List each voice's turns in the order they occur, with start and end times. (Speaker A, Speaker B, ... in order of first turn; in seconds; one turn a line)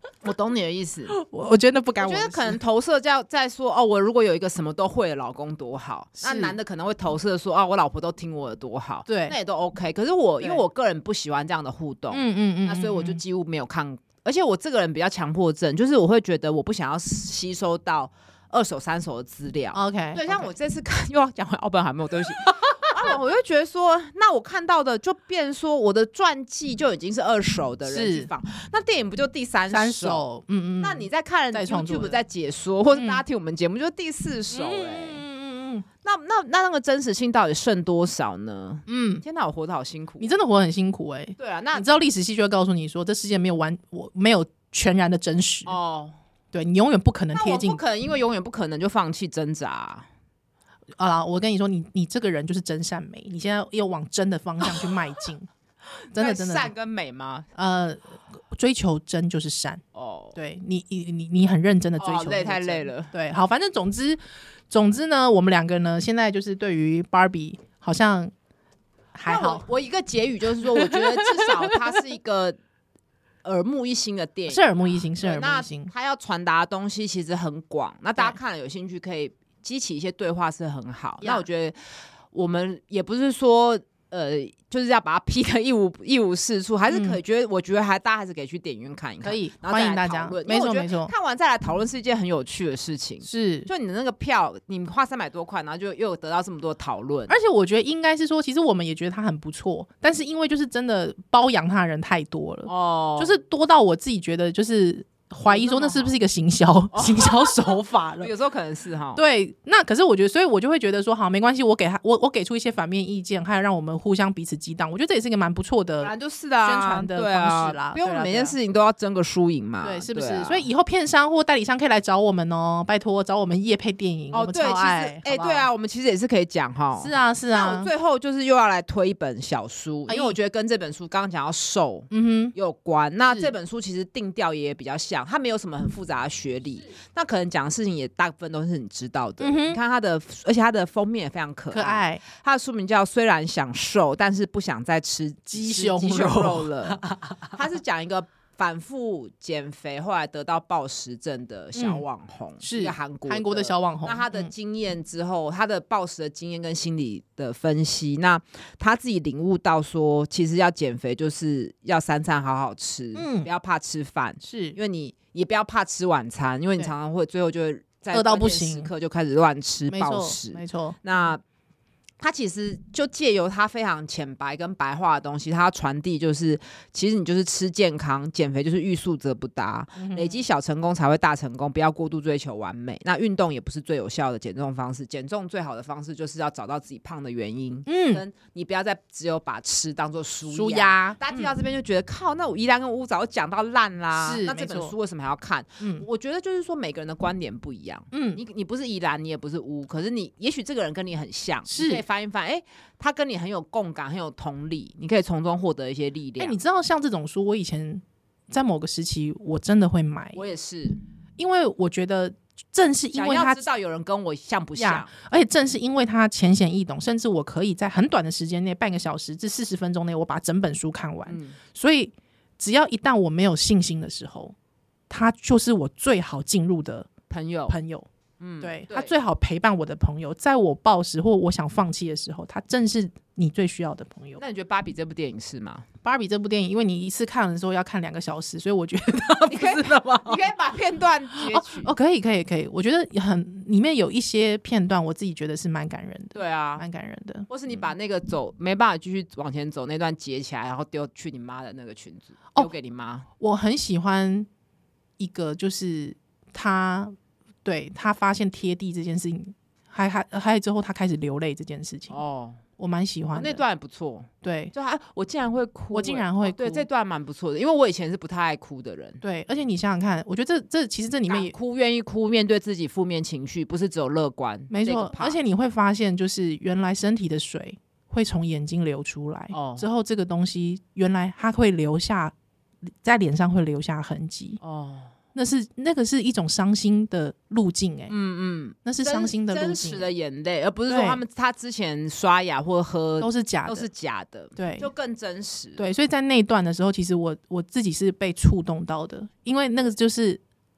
Speaker A: 0.2-1.1
Speaker B: 1.1-2.6
Speaker A: 2.0-30.2
Speaker B: 6.2-6.5
Speaker B: 9.1-9.3
Speaker B: 12.1-13.2
Speaker B: 19.7-20.5
Speaker B: 22.4-23.1
Speaker B: 27.9-28.3
Speaker B: 29.7-32.2
Speaker A: 30.8-35.2
Speaker B: 32.9-33.2
Speaker B: 34.5-35.9
Speaker A: 36.0-40.4
Speaker B: 38.9-39.2
Speaker B: 40.2-45.7
Speaker A: 41.4-41.9
Speaker A: 45.6-46.1
Speaker B: 46.5-47.8
Speaker A: 47.3-50.1
Speaker B: 51.0-55.5
Speaker A: 54.6-54.9
Speaker A: 56.1-57.5
Speaker B: 56.1-56.7
Speaker B: 57.5-59.8
Speaker A: 59.9-60.4
Speaker B: 60.3-64.2
Speaker A: 62.0-63.1
Speaker B: 64.7-68.3
Speaker B: 69.1-69.6
Speaker A: 69.2-72.6
Speaker B: 70.6-71.8
Speaker A: 73.4-81.8
Speaker B: 74.5-75.9
Speaker B: 81.2-81.5
Speaker A: 82.3-97.3
Speaker B: 86.9-87.2
Speaker B: 89.2-91.1
Speaker B: 93.2-93.7
Speaker B: 97.3-108.3
Speaker A: 102.7-103.4
Speaker A: 105.5-106.2
Speaker A: 106.9-109.2
Speaker B: 109.2-118.5
Speaker A: 116.0-120.7
Speaker B: 119.8-125.7
Speaker A: 124.3-147.0
Speaker B: 127.0-127.9
Speaker B: 130.1-130.3
Speaker B: 132.1-132.5
Speaker B: 139.4-139.8
Speaker B: 141.7-142.2
Speaker B: 145.5-147.6
Speaker A: 147.5-171.4
Speaker B: 151.7-152.0
Speaker B: 152.6-154.5
Speaker B: 163.2-163.5
Speaker B: 164.4-164.8
Speaker B: 168.1-168.9
Speaker B: 169.9-171.0
Speaker A: 172.2-206.6
Speaker B: 179.9-180.4
Speaker B: 187.9-188.2
Speaker B: 190.5-191.5
Speaker B: 194.2-194.9
Speaker B: 195.8-196.1
Speaker B: 198.1-198.4
Speaker B: 201.7-202.0
Speaker B: 206.4-210.4
Speaker A: 210.3-211.0
Speaker B: 211.4-213.6
Speaker A: 213.1-215.1
Speaker B: 214.8-224.5
Speaker A: 221.3-221.6
Speaker B: 225.1-227.1
Speaker A: 227.3-227.8
Speaker B: 227.7-228.1
Speaker A: 228.4-229.1
Speaker B: 228.6-234.4
Speaker A: 234.4-235.8
Speaker B: 236.0-240.5
Speaker A: 239.5-241.9
Speaker B: 241.4-247.5
Speaker A: 246.3-246.8
Speaker A: 247.5-253.3
Speaker B: 253.4-254.5
Speaker B: 255.2-262.2
Speaker A: 262.1-262.6
Speaker B: 262.8-263.6
Speaker A: 263.3-269.2
Speaker B: 264.4-264.7
Speaker B: 265.9-266.9
Speaker B: 269.2-271.5
Speaker A: 271.3-275.4
Speaker B: 274.7-282.3
Speaker A: 279.5-279.9
Speaker B: 283.0-284.6
Speaker A: 284.6-285.1
Speaker B: 285.3-288.1
Speaker A: 288.1-295.8
Speaker B: 288.8-290.1
Speaker B: 290.9-291.2
Speaker B: 293.2-293.9
Speaker B: 294.6-294.9
Speaker B: 295.8-300.4